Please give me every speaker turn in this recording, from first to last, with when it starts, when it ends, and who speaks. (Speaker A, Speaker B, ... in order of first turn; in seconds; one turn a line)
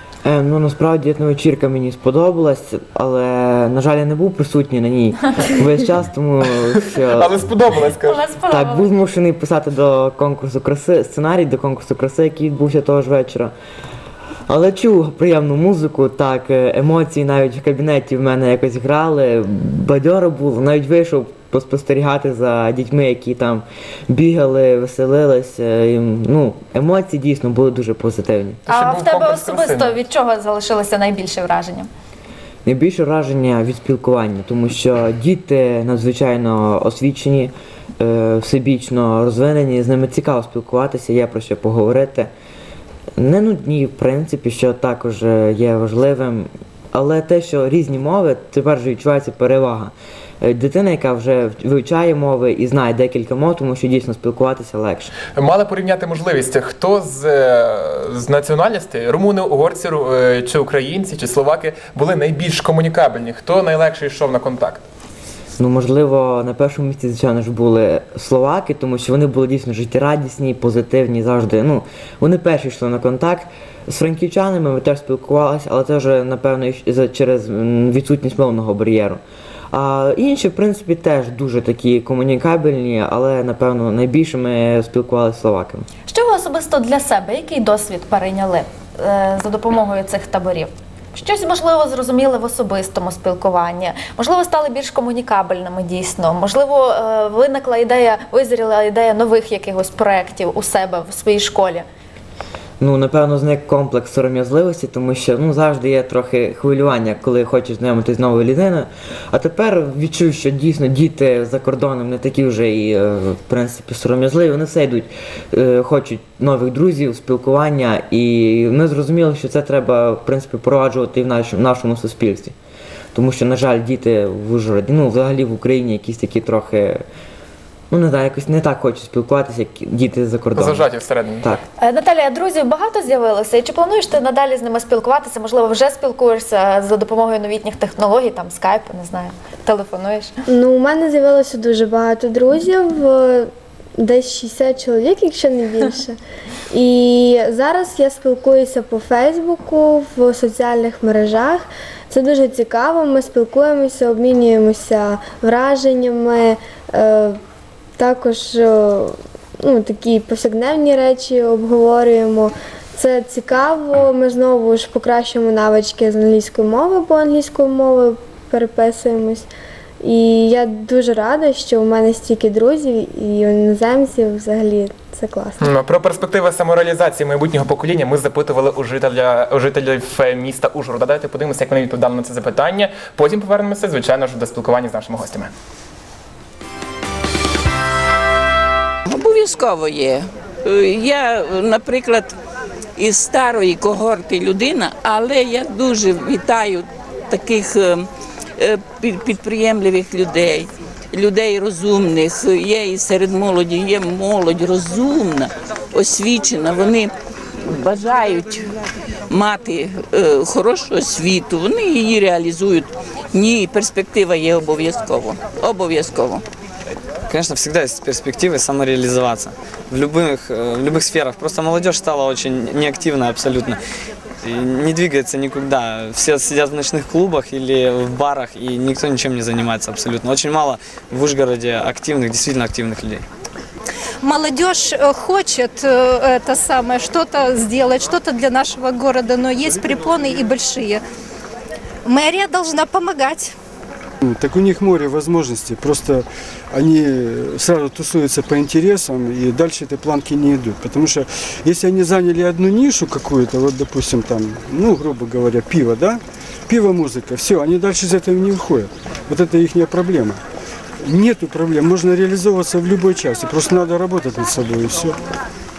Speaker A: 0.2-7.4
Speaker B: 6.9-8.2
Speaker C: 8.0-8.9
Speaker A: 8.5-13.5
Speaker A: 14.5-28.6
Speaker B: 28.6-30.0
Speaker C: 28.7-31.9
Speaker A: 32.6-42.3
Speaker A: 43.2-55.1
Speaker B: 55.4-64.8
Speaker A: 65.6-79.2
Speaker A: 79.7-85.9
Speaker C: 86.1-101.8
Speaker A: 102.8-122.5
Speaker A: 123.1-127.0
Speaker A: 127.9-130.8
Speaker B: 130.6-131.5
Speaker C: 131.8-140.3
Speaker D: 140.5-146.2
Speaker D: 146.7-157.4
Speaker D: 158.0-169.5
Speaker D: 170.0-175.7
Speaker B: 175.6-185.5
Speaker E: 189.1-192.3
Speaker E: 192.9-208.6
Speaker E: 209.3-216.4
Speaker F: 217.3-223.8
Speaker F: 224.4-233.2
Speaker G: 234.2-241.0
Speaker G: 242.0-243.5
Speaker H: 244.2-260.4
Speaker H: 261.0-265.2